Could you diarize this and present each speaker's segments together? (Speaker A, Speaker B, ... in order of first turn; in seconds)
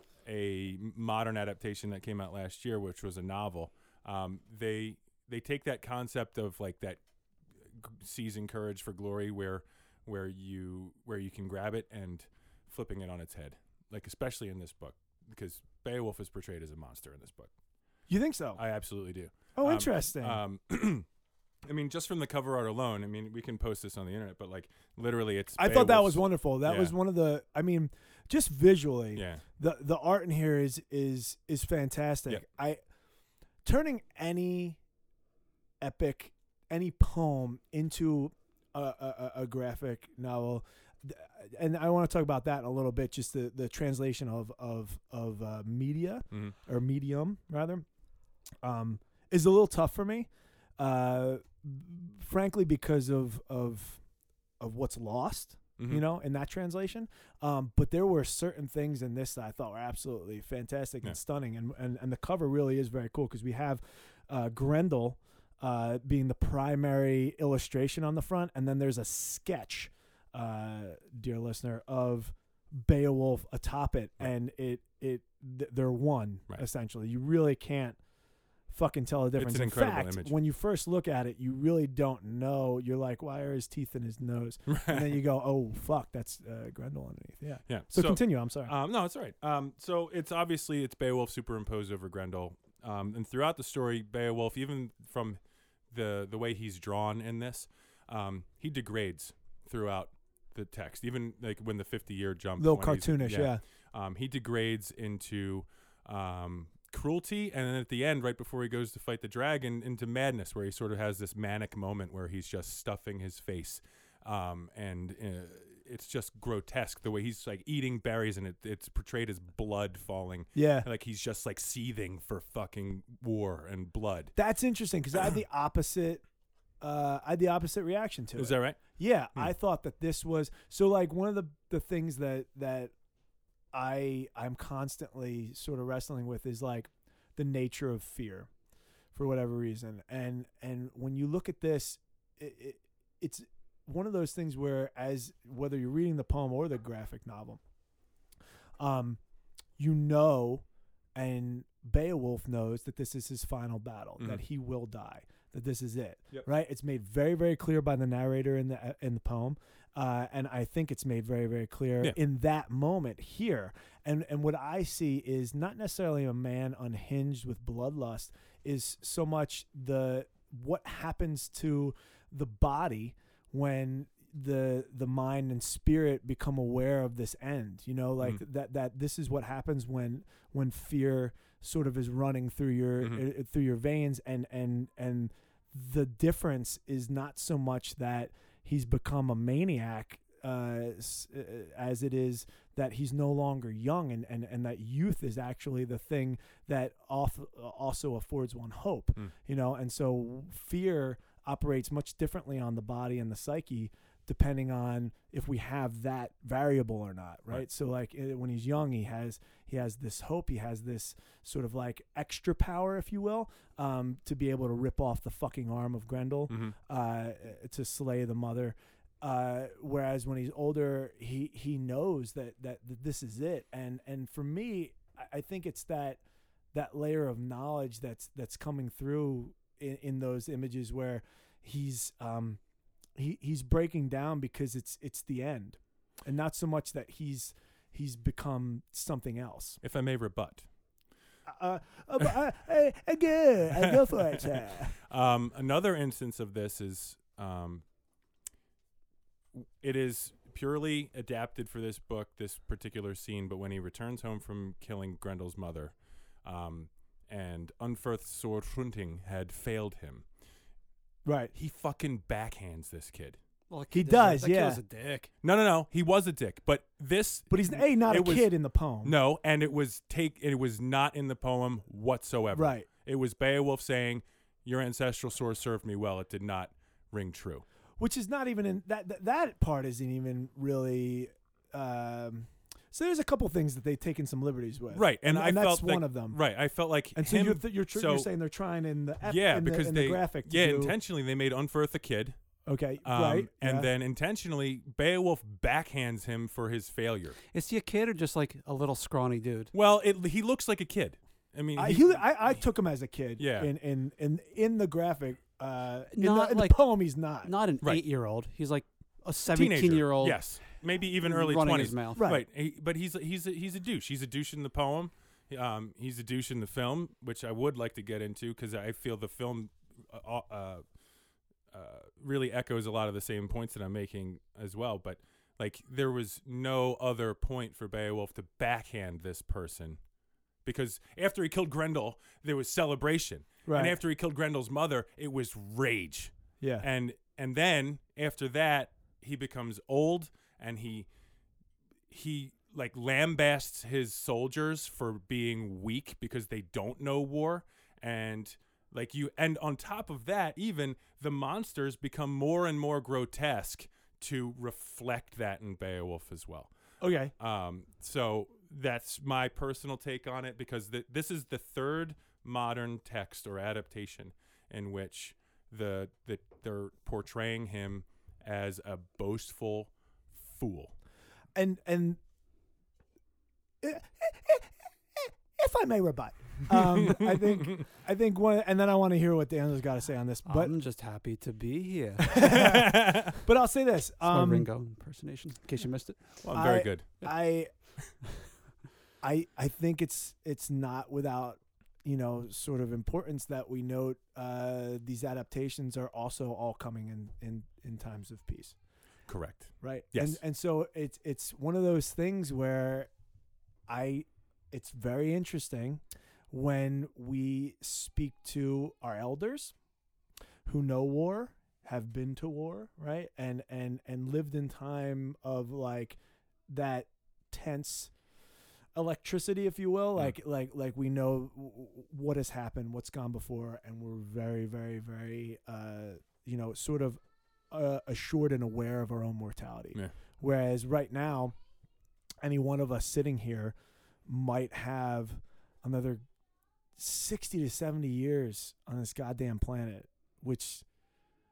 Speaker A: 0.2-7.0, 7.6-17.5, 18.6-21.1, 21.6-26.9, 29.1-29.4, 55.8-56.0, 79.4-80.4, 84.7-85.2, 87.7-95.4, 95.9-124.3, 128.4-128.8, 216.5-216.8, 239.8-240.7, 243.8-247.8, 249.5-260.3, 261.5-263.4, 265.4-268.5, 269.0-277.6, 284.9-288.3, 289.2-292.4, 293.1-297.4, 299.7-302.2, 303.4-303.7, 309.5-320.8, 321.7-330.0, 330.6-341.1, 342.1-356.7, 357.4-370.9, 377.0-377.8, 382.4-383.3, 386.4-387.1, 399.3-400.4
Speaker B: 18.1-18.6, 19.6-20.4, 25.6-32.8, 33.6-34.8, 35.8-47.9, 48.6-54.0, 54.6-78.0, 78.7-88.7, 102.6-103.6, 120.5-120.9, 124.4-126.2, 126.8-132.9, 133.7-138.5, 139.1-147.6, 148.8-149.2, 149.8-150.6, 151.2-226.2, 226.7-232.6, 233.2-239.8, 241.5-244.9, 261.2-261.5, 263.9-264.8, 267.5-269.1, 272.5-272.9, 278.0-286.4, 287.1-290.9, 292.7-293.9, 301.8-307.5, 312.2-312.4, 333.7-334.0, 336.6-336.9, 357.0-357.3, 371.6-372.2, 373.8-380.7, 382.3-384.7, 386.5-387.7, 389.2-398.8, 399.8-403.1, 403.9-409.7, 410.7-416.2, 416.7-418.1, 418.9-427.2, 427.7-431.6, 432.4-433.8, 434.3-436.2, 437.0-440.9
Speaker C: 263.7-265.3, 297.5-299.7, 306.2-306.9, 307.4-310.4, 311.2-312.2, 380.5-382.6, 384.2-386.4